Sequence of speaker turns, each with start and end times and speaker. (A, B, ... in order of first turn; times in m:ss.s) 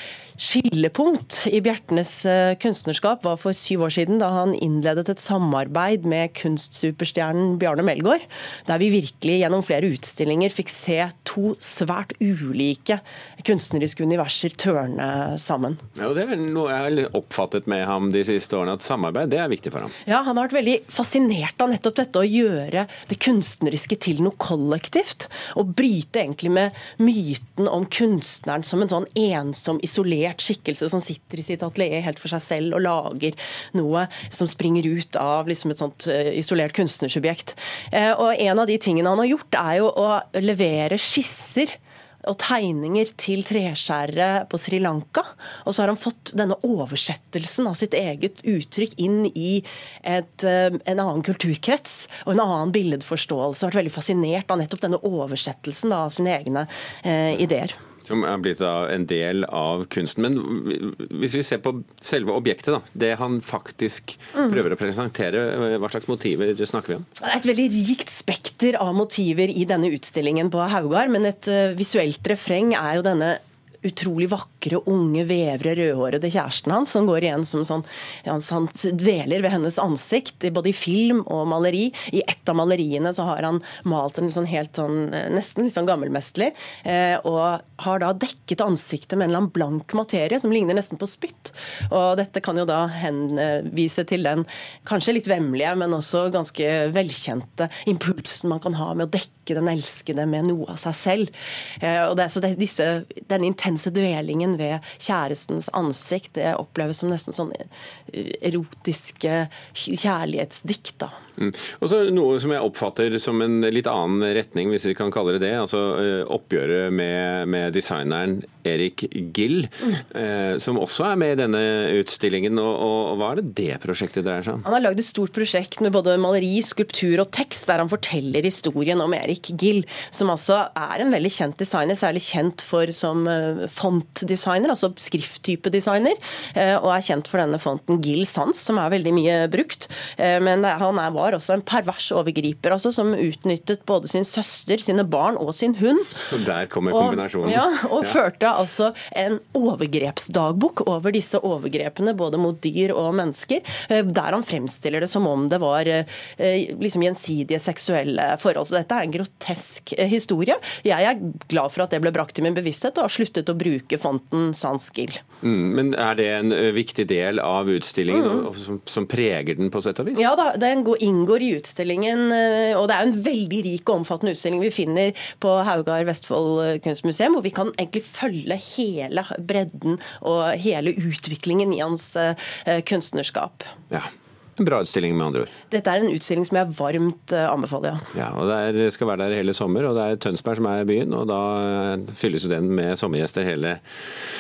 0:00.4-0:15.8 A
0:16.0-0:19.9 B
0:20.1-0:57.8 A
0:58.0-1:07.1 B
1:07.2-1:51.2 A
1:51.4-2:04.6 B
2:04.7-2:26.2 A
2:26.2-2:28.2 B
2:26.9-2:45.2 A
2:45.4-2:50.3 B
2:48.1-2:48.5 A
2:50.2-3:03.7 A
3:03.9-3:05.5 B
3:05.7-3:08.1 A
3:08.1-3:13.8 B